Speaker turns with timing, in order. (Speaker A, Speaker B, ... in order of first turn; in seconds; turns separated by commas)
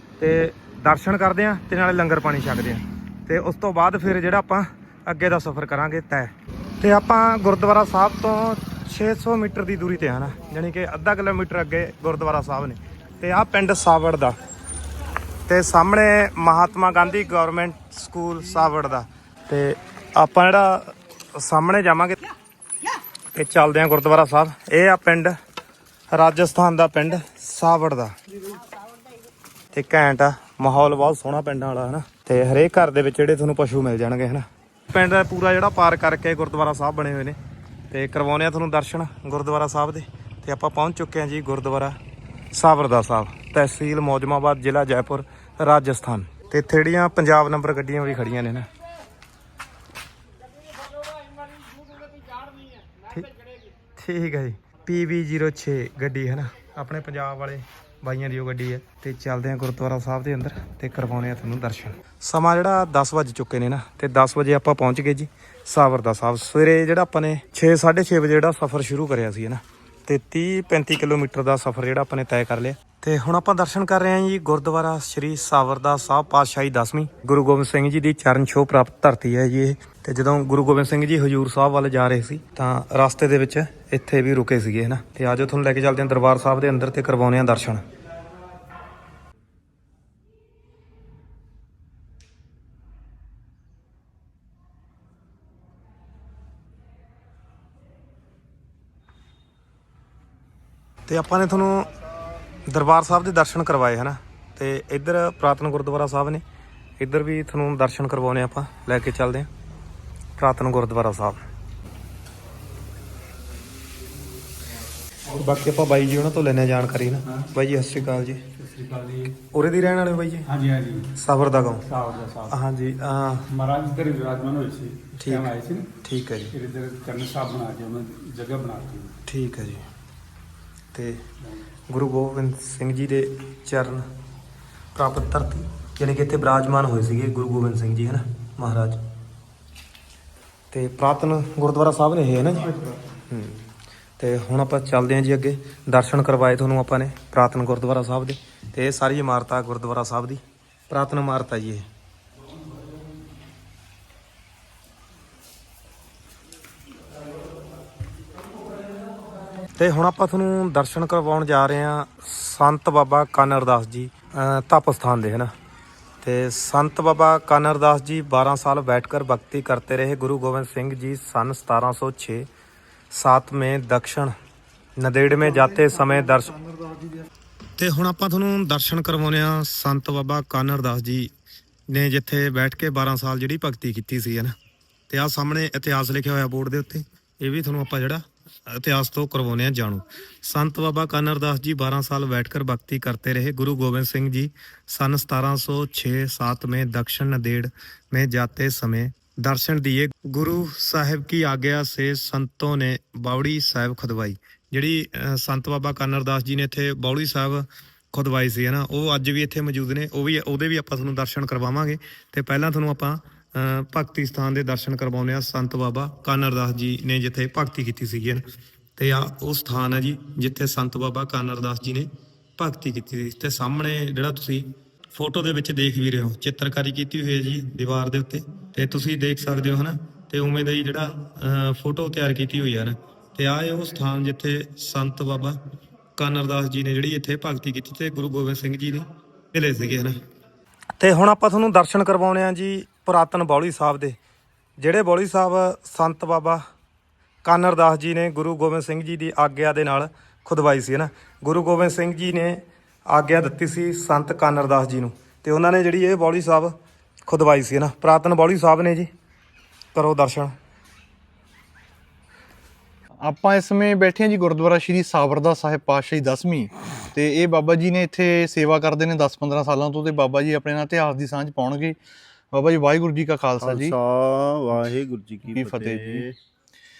Speaker A: 0.2-14.3, Speaker A: 15.5-22.2, Speaker A: 23.3-25.3, Speaker A: 26.1-28.1, Speaker A: 29.7-37.4, Speaker A: 37.9-42.0, Speaker A: 42.5-48.7, Speaker A: 54.0-87.8, Speaker A: 101.1-101.9, Speaker A: 102.7-106.4, Speaker A: 107.0-109.5, Speaker A: 110.4-111.4, Speaker A: 115.3-118.4, Speaker B: 118.7-119.3, Speaker A: 119.5-120.5, Speaker B: 120.5-121.0, Speaker A: 121.2-121.8, Speaker B: 121.9-122.5, Speaker A: 122.5-123.5, Speaker B: 123.5-125.8, Speaker A: 125.2-126.5, Speaker B: 126.5-129.1, Speaker A: 129.2-129.8, Speaker A: 130.9-131.2, Speaker A: 131.9-134.0, Speaker A: 134.9-139.0, Speaker A: 140.7-142.8, Speaker A: 143.3-143.7, Speaker A: 144.2-151.8, Speaker A: 159.8-165.5, Speaker A: 166.2-172.4, Speaker A: 173.1-174.3, Speaker A: 175.0-176.6, Speaker C: 175.4-177.3, Speaker A: 177.8-181.3, Speaker A: 181.9-184.5, Speaker A: 185.1-218.4, Speaker A: 219.0-235.6, Speaker A: 236.2-240.2, Speaker A: 241.0-244.2, Speaker A: 244.8-246.6, Speaker A: 247.4-256.7, Speaker A: 257.3-259.1, Speaker A: 259.9-260.5, Speaker C: 263.2-272.0, Speaker C: 272.5-273.9, Speaker D: 273.6-276.3, Speaker C: 275.5-276.2